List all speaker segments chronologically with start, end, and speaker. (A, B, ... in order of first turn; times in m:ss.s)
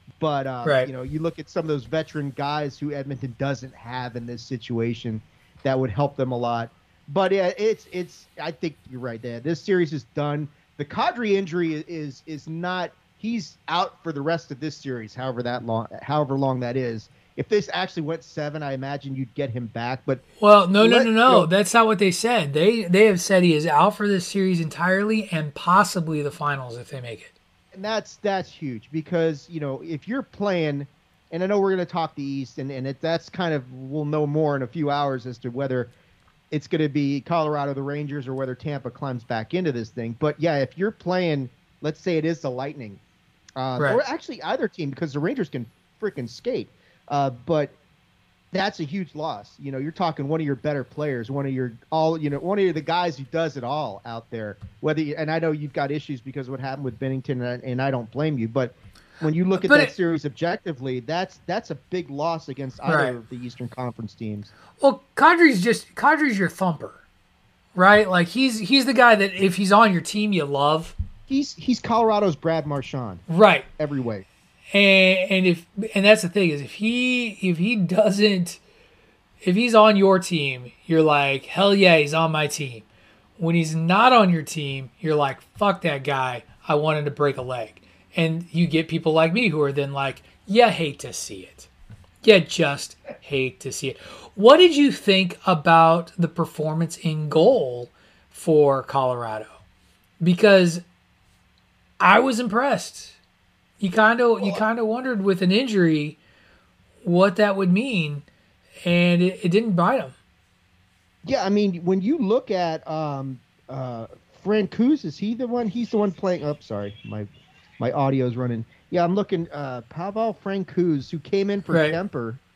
0:00.2-0:20.2 A
0:00.6-0:00.9 B
0:20.4-0:27.3 B
0:20.8-0:21.5 A
0:27.7-0:35.9 A
0:36.5-0:43.0 A
0:43.6-0:47.8 A
0:43.8-0:44.0 B
0:48.5-1:04.5 A
0:59.6-0:59.9 B
1:02.8-1:03.2 B
1:04.8-1:07.0 B
1:07.8-1:11.0 B
1:11.3-1:13.2 A
1:13.3-1:13.7 B
1:13.8-1:14.3 A
1:14.7-1:18.6 B
1:19.4-1:22.8 B
1:23.4-1:31.7 B
1:32.2-1:39.5 B
1:40.2-1:40.8 B
1:42.0-1:43.2 B
1:43.8-1:46.2 B
1:47.0-1:48.2 B
1:48.8-1:50.2 B
1:51.2-2:02.4 A
2:01.7-2:02.0 B